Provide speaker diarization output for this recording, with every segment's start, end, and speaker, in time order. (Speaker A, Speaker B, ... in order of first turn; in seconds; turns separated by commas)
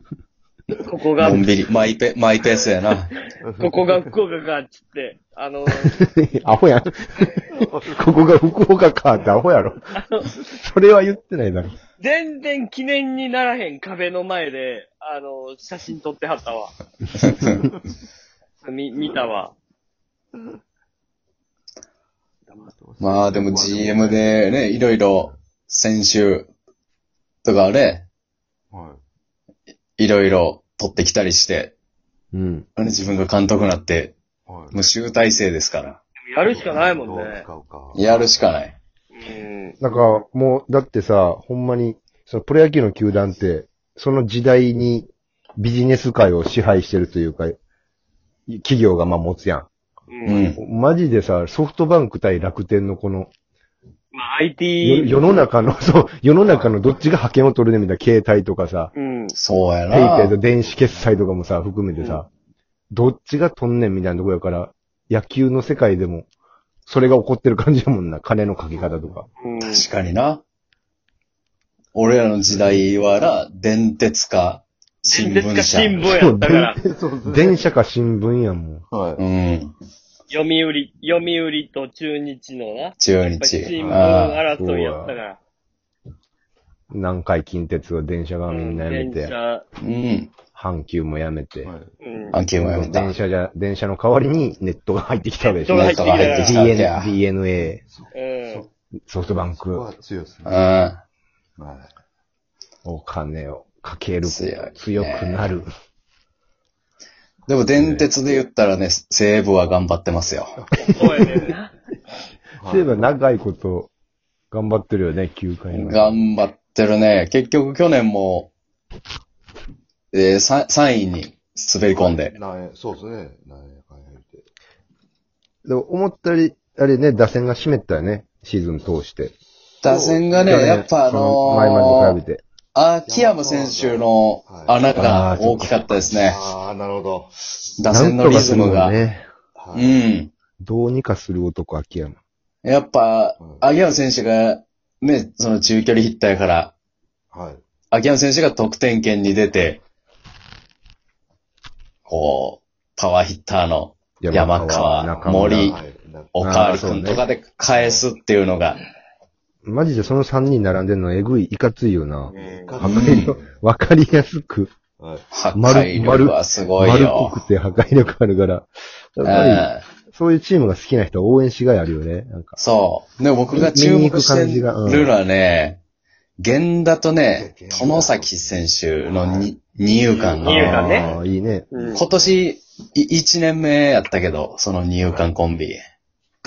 Speaker A: 0.8-1.5, Speaker B: 1.2-3.1, Speaker C: 3.4-4.1, Speaker A: 3.6-6.0, Speaker D: 5.7-11.8, Speaker C: 7.5-8.1, Speaker A: 9.9-10.3, Speaker A: 12.0-16.7, Speaker A: 18.6-19.5, Speaker C: 22.5-24.5, Speaker B: 23.0-26.5, Speaker B: 27.4-28.1, Speaker C: 28.7-29.0, Speaker B: 30.0-31.7, Speaker D: 32.3-32.6, Speaker B: 32.8-34.1, Speaker C: 34.5-34.8, Speaker B: 34.7-36.0, Speaker A: 36.3-37.5, Speaker C: 36.4-38.5, Speaker B: 37.9-38.7, Speaker A: 39.1-39.8, Speaker D: 39.8-47.5, Speaker D: 48.5-49.7, Speaker A: 50.1-50.4, Speaker B: 50.2-50.6, Speaker D: 50.6-53.3, Speaker A: 54.1-55.2, Speaker D: 54.8-58.9, Speaker A: 58.9-59.3, Speaker B: 59.3-60.3, Speaker D: 59.9-62.3, Speaker C: 60.6-61.2, Speaker A: 62.0-62.2, Speaker D: 62.9-66.3, Speaker D: 66.8-69.3, Speaker C: 68.7-69.2, Speaker A: 69.4-69.8, Speaker B: 69.6-70.4, Speaker B: 71.9-76.1, Speaker A: 75.1-76.8, Speaker D: 76.0-78.8, Speaker C: 76.8-77.7, Speaker C: 78.9-79.2, Speaker B: 79.2-79.7, Speaker A: 80.3-85.4, Speaker B: 83.0-84.4, Speaker D: 83.8-85.2, Speaker D: 86.9-89.3, Speaker A: 88.5-89.6, Speaker B: 89.8-90.3, Speaker D: 90.5-91.7, Speaker C: 91.6-91.9, Speaker A: 92.0-92.4, Speaker B: 92.3-93.1, Speaker D: 92.6-97.8, Speaker A: 95.4-96.7, Speaker B: 95.7-97.2, Speaker C: 97.8-98.7, Speaker A: 98.1-98.7, Speaker D: 99.1-99.8, Speaker C: 99.5-100.6, Speaker B: 100.4-101.0, Speaker C: 101.6-101.9, Speaker D: 102.8-105.7, Speaker B: 104.2-105.5, Speaker B: 107.5-110.5, Speaker D: 107.8-108.0, Speaker A: 110.8-111.7, Speaker D: 110.8-111.5, Speaker C: 112.6-113.1, Speaker D: 112.6-113.9, Speaker D: 114.5-116.3, Speaker B: 115.7-118.5, Speaker B: 120.1-122.3, Speaker C: 121.9-124.5, Speaker D: 125.7-129.3, Speaker B: 129.8-132.2, Speaker C: 129.8-130.8, Speaker D: 130.4-132.4, Speaker B: 132.7-136.4, Speaker C: 133.1-134.8, Speaker D: 134.9-136.0, Speaker C: 136.2-137.3, Speaker B: 137.8-138.9, Speaker D: 137.9-139.3, Speaker C: 139.6-140.0, Speaker B: 139.7-140.3, Speaker D: 140.6-142.2, Speaker B: 142.6-146.7, Speaker C: 143.4-143.6, Speaker C: 147.3-147.6, Speaker B: 147.9-149.8, Speaker B: 152.1-155.8, Speaker D: 154.2-155.8, Speaker C: 155.1-156.4, Speaker B: 156.3-158.8, Speaker D: 156.4-157.2, Speaker C: 157.7-158.1, Speaker D: 159.6-164.7, Speaker A: 162.3-162.7, Speaker C: 162.3-163.5, Speaker B: 162.8-163.4, Speaker C: 165.0-165.2, Speaker B: 165.3-167.4, Speaker D: 165.5-172.6, Speaker B: 169.2-169.8, Speaker B: 172.6-175.8, Speaker D: 173.5-175.1, Speaker B: 176.4-181.0, Speaker C: 177.3-179.5, Speaker C: 180.2-182.5, Speaker A: 180.4-181.1, Speaker D: 180.4-181.7, Speaker A: 181.7-182.0, Speaker B: 181.9-185.8, Speaker C: 185.0-185.3